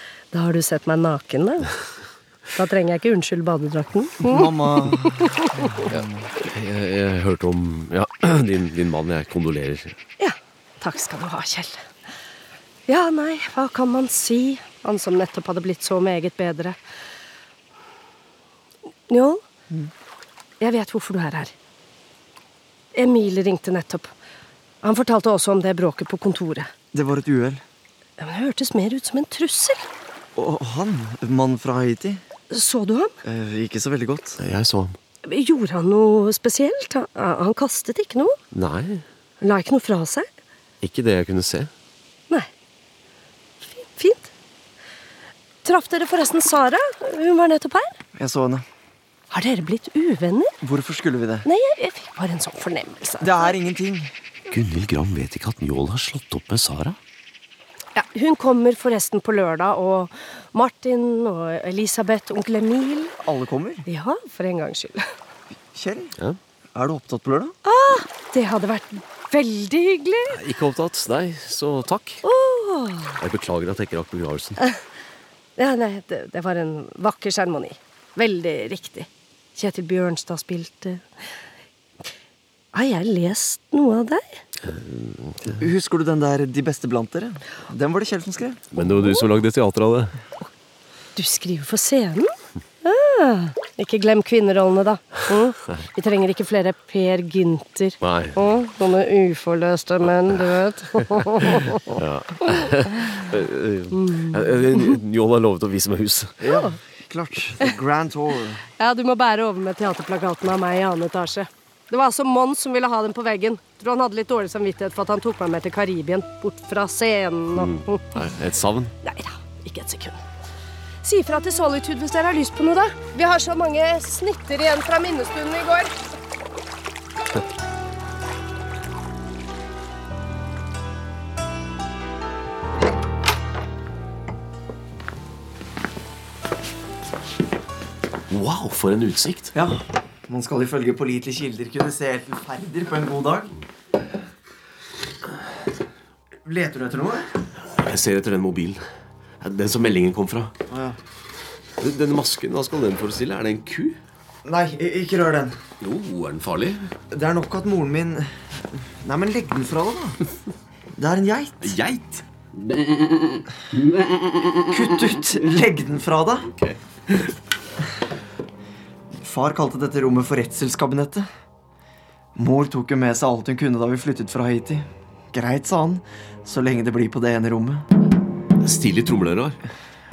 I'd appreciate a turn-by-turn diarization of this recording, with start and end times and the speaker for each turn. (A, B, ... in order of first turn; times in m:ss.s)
0:00.3-0:01.7 A
0:02.5-0:04.5 A
0:04.2-0:06.2 B
0:05.2-0:05.6 A
0:05.9-0:10.0 C
0:10.2-0:11.8 A
0:12.9-0:16.8 A
0:19.1-0:19.4 A
0:20.6-0:21.5 A
0:22.9-0:24.1 A
0:24.8-0:26.7 A
0:26.9-0:27.6 B
0:28.2-0:29.9 A
0:30.4-0:32.2 B
0:32.5-0:33.1 A
0:33.2-0:34.4 B
0:34.4-0:35.0 C
0:35.2-0:38.4 A
0:38.5-0:39.0 C
0:39.4-0:40.3 A
0:40.8-0:41.7 C
0:43.6-0:44.3 A
0:45.6-0:47.9 A
0:48.2-0:48.6 B
0:49.3-0:50.5 A
0:50.6-0:51.5 B
0:51.4-0:53.5 A
0:53.2-0:54.1 B
0:54.5-0:57.0 D
0:57.9-1:03.1 A
1:03.2-1:03.9 B
1:03.9-1:05.0 A
1:05.7-1:06.2 B
1:06.7-1:07.5 B
1:07.6-1:10.4 A
1:10.3-1:12.2 C
1:12.2-1:13.2 A
1:13.2-1:14.6 C
1:15.6-1:21.0 A
1:22.7-1:24.4 A
1:24.7-1:25.3 C
1:25.5-1:28.6 B
1:28.7-1:30.1 C
1:31.2-1:42.0 A
1:38.0-1:38.4 C
1:41.0-1:46.4 C
1:43.9-1:44.4 A
1:46.4-1:48.6 B
1:48.8-1:58.0 A
1:57.5-1:58.9 C
1:59.0-2:00.2 A
2:01.0-2:06.0 A
2:18.3-2:19.5 C
2:19.5-2:23.5 B
2:26.4-2:27.3 B
2:27.7-2:28.8 C
2:29.4-2:30.5 C
2:30.7-2:31.0 B
2:31.8-2:34.0 C
2:34.4-2:35.6 B
2:35.8-2:36.9 C
2:37.1-2:40.2 B
2:40.9-2:41.8 B
2:41.6-2:42.8 C
2:44.6-2:46.5 B
2:49.1-2:51.3 B
2:52.4-2:57.8 B
2:58.6-2:59.6 C